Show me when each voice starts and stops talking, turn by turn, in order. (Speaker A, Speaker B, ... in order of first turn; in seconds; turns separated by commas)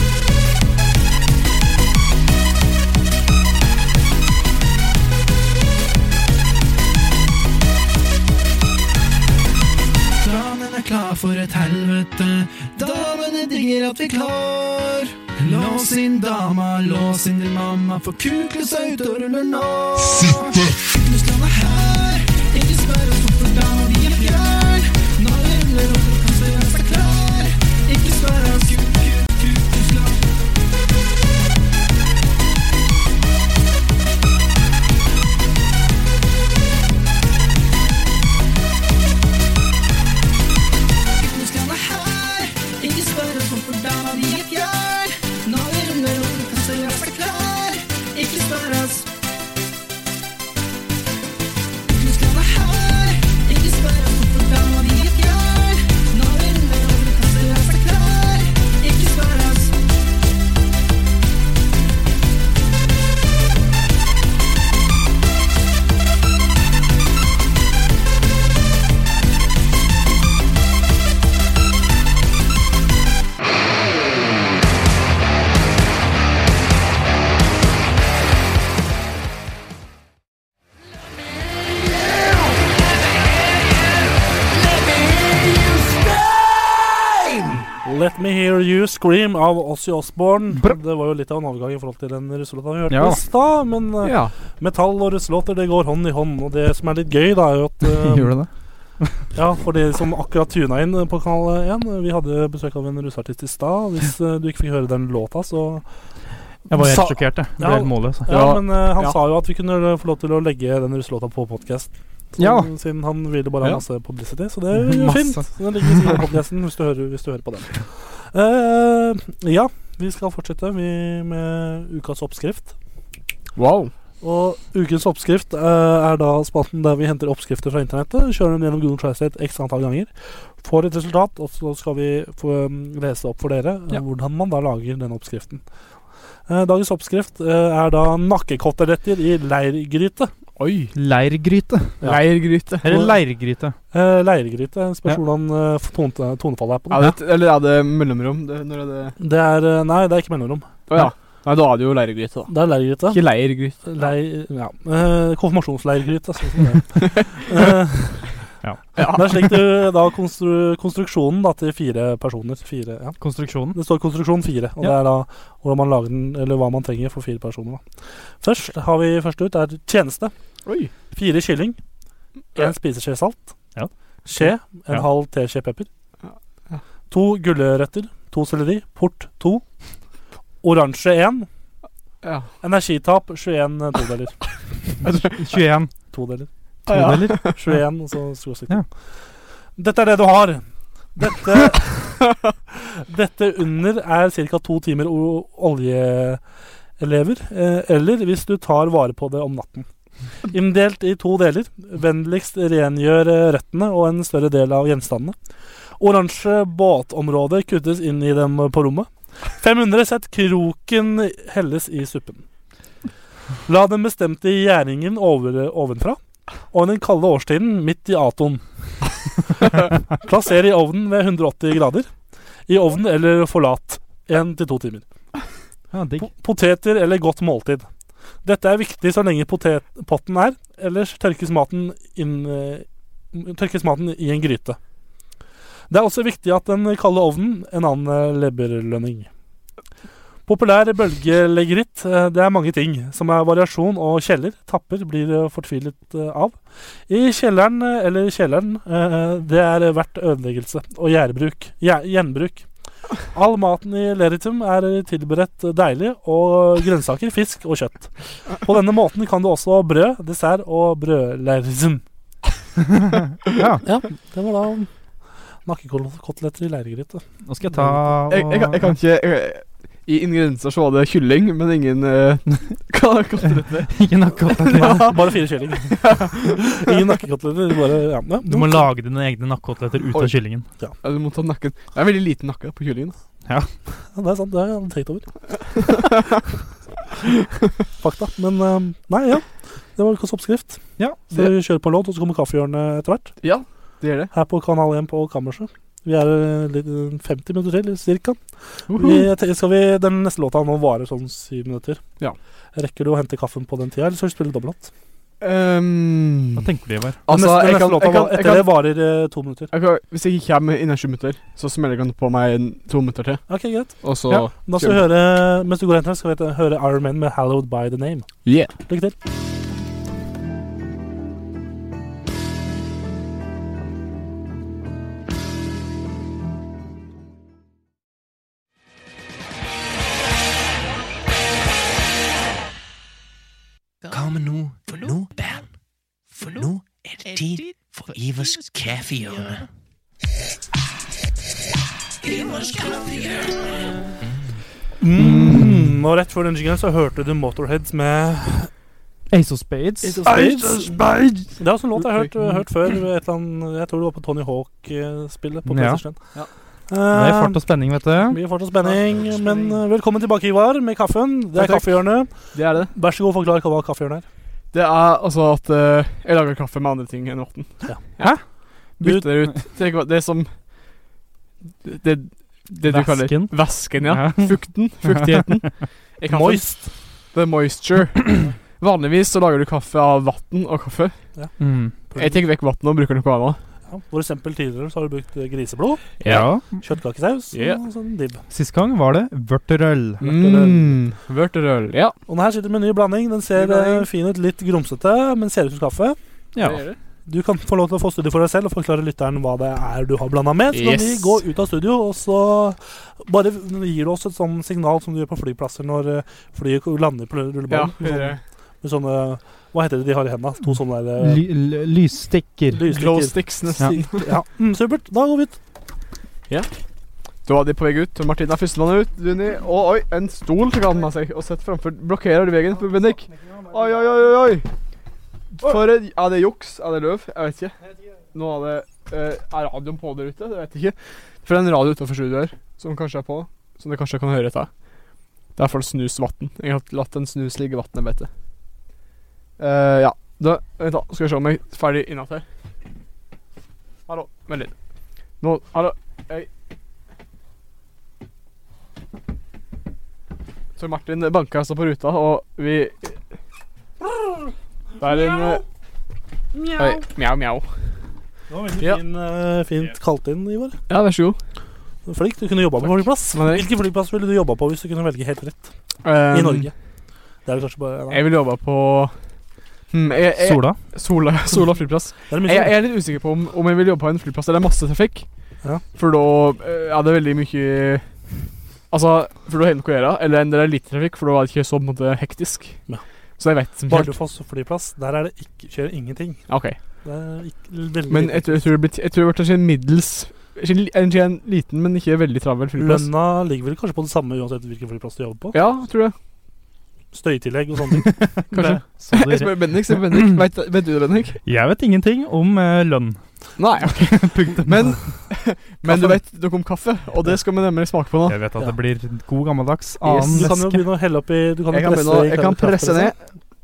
Speaker A: 10.2-30.2, Speaker A: 41.2-49.1, Speaker A: 51.9-59.7, Speaker B: 87.7-98.3, Speaker C: 92.9-93.2, Speaker D: 94.0-94.3, Speaker C: 98.0-98.5, Speaker B: 99.3-105.8, Speaker C: 106.7-108.3, Speaker B: 106.8-122.7, Speaker D: 108.3-109.2, Speaker C: 112.4-112.7, Speaker C: 114.8-115.4, Speaker D: 123.5-123.9, Speaker B: 124.2-135.6, Speaker B: 136.5-140.3, Speaker D: 140.6-140.9, Speaker C: 140.9-142.0, Speaker D: 142.0-142.8, Speaker C: 142.8-143.7, Speaker B: 142.8-143.1, Speaker B: 143.9-147.1, Speaker D: 146.9-149.1, Speaker B: 149.2-150.7, Speaker D: 150.9-152.5, Speaker B: 152.5-153.2, Speaker D: 153.1-153.8, Speaker B: 153.8-158.3, Speaker D: 159.0-159.5, Speaker B: 159.0-163.2, Speaker C: 163.2-163.8, Speaker B: 163.7-167.8, Speaker B: 168.4-170.3, Speaker D: 170.7-170.9, Speaker B: 171.1-171.8, Speaker B: 172.5-173.5, Speaker B: 174.2-175.9, Speaker C: 174.4-175.0, Speaker D: 176.2-176.8, Speaker B: 177.1-179.6, Speaker B: 180.6-181.5, Speaker D: 182.2-182.5, Speaker B: 182.6-184.5, Speaker D: 185.0-185.4, Speaker C: 185.3-185.9, Speaker B: 186.1-186.5, Speaker D: 186.9-187.6, Speaker C: 186.9-187.6, Speaker B: 187.4-188.8, Speaker B: 189.8-190.6, Speaker B: 191.2-196.4, Speaker B: 197.0-199.9, Speaker B: 200.5-205.3, Speaker B: 206.0-212.4, Speaker B: 213.7-216.2, Speaker B: 216.7-218.6, Speaker B: 219.7-222.1, Speaker B: 222.7-225.0, Speaker C: 225.9-226.3, Speaker B: 226.2-227.8, Speaker B: 228.4-234.8, Speaker B: 235.9-239.3, Speaker B: 240.5-246.6, Speaker B: 247.1-252.7, Speaker B: 253.2-262.0, Speaker C: 262.9-263.8, Speaker B: 263.9-264.9, Speaker B: 265.6-267.2, Speaker C: 267.4-268.9, Speaker D: 268.3-277.0, Speaker C: 273.9-275.1, Speaker B: 274.7-278.9, Speaker C: 278.4-280.6, Speaker D: 281.0-283.1, Speaker B: 284.1-285.4, Speaker D: 286.0-286.2, Speaker B: 288.0-293.4, Speaker D: 293.4-294.3, Speaker B: 294.3-302.0, Speaker D: 298.9-299.3, Speaker B: 302.7-304.9, Speaker D: 305.4-306.7, Speaker C: 306.6-307.2, Speaker D: 307.2-308.7, Speaker B: 307.3-309.7, Speaker D: 309.7-313.5, Speaker B: 313.5-319.1, Speaker D: 314.0-315.0, Speaker D: 318.4-318.7, Speaker E: 334.1-335.7, Speaker E: 336.3-339.7, Speaker E: 342.4-342.7, Speaker A: 342.7-343.5, Speaker B: 345.0-348.7, Speaker D: 345.3-345.7, Speaker C: 349.3-351.5, Speaker B: 350.1-351.0, Speaker B: 351.6-356.3, Speaker D: 352.0-352.3, Speaker C: 355.7-356.0, Speaker B: 356.9-364.2, Speaker C: 357.1-358.4, Speaker D: 358.8-359.8, Speaker D: 361.6-362.9, Speaker D: 364.7-370.9, Speaker D: 371.8-381.2, Speaker C: 372.9-375.6, Speaker B: 376.3-376.9, Speaker C: 381.6-381.9, Speaker B: 382.0-382.4, Speaker D: 382.1-383.6, Speaker B: 383.9-386.2, Speaker D: 386.2-386.5, Speaker C: 386.2-386.8, Speaker B: 386.8-388.4, Speaker D: 387.5-387.8, Speaker C: 388.5-390.2, Speaker B: 390.2-391.0, Speaker D: 390.2-392.1, Speaker B: 392.3-396.2, Speaker D: 393.5-394.1, Speaker C: 396.5-396.8, Speaker D: 396.6-397.0, Speaker B: 397.3-411.4, Speaker D: 400.7-401.4, Speaker D: 407.7-408.4, Speaker C: 411.2-412.8, Speaker B: 412.7-415.6, Speaker D: 412.9-414.3, Speaker D: 417.4-424.7, Speaker D: 425.6-434.7, Speaker D: 435.6-438.3, Speaker D: 439.6-442.4, Speaker D: 444.1-444.7, Speaker D: 445.4-446.5, Speaker D: 450.8-453.2, Speaker B: 454.0-454.5, Speaker D: 455.0-455.6, Speaker B: 455.0-455.6, Speaker B: 456.5-457.0, Speaker D: 456.8-457.7, Speaker B: 458.5-460.8, Speaker D: 460.9-461.4, Speaker B: 462.1-465.7, Speaker D: 462.8-463.7, Speaker D: 466.0-466.7, Speaker B: 466.3-466.7, Speaker B: 467.4-468.2, Speaker D: 468.1-469.1, Speaker D: 469.9-475.3, Speaker C: 470.4-470.8, Speaker B: 472.3-472.8, Speaker D: 475.9-478.2, Speaker D: 478.9-482.8, Speaker D: 483.4-484.1, Speaker B: 483.8-486.4, Speaker D: 486.5-486.8, Speaker B: 487.0-488.7, Speaker D: 488.1-493.1, Speaker B: 492.8-495.6, Speaker D: 495.5-496.1, Speaker B: 497.1-498.2, Speaker C: 498.0-500.4, Speaker D: 498.5-501.4, Speaker C: 501.4-503.2, Speaker D: 503.6-508.4, Speaker C: 503.9-505.0, Speaker C: 508.3-510.8, Speaker D: 510.0-510.4, Speaker B: 510.3-513.1, Speaker D: 511.7-513.1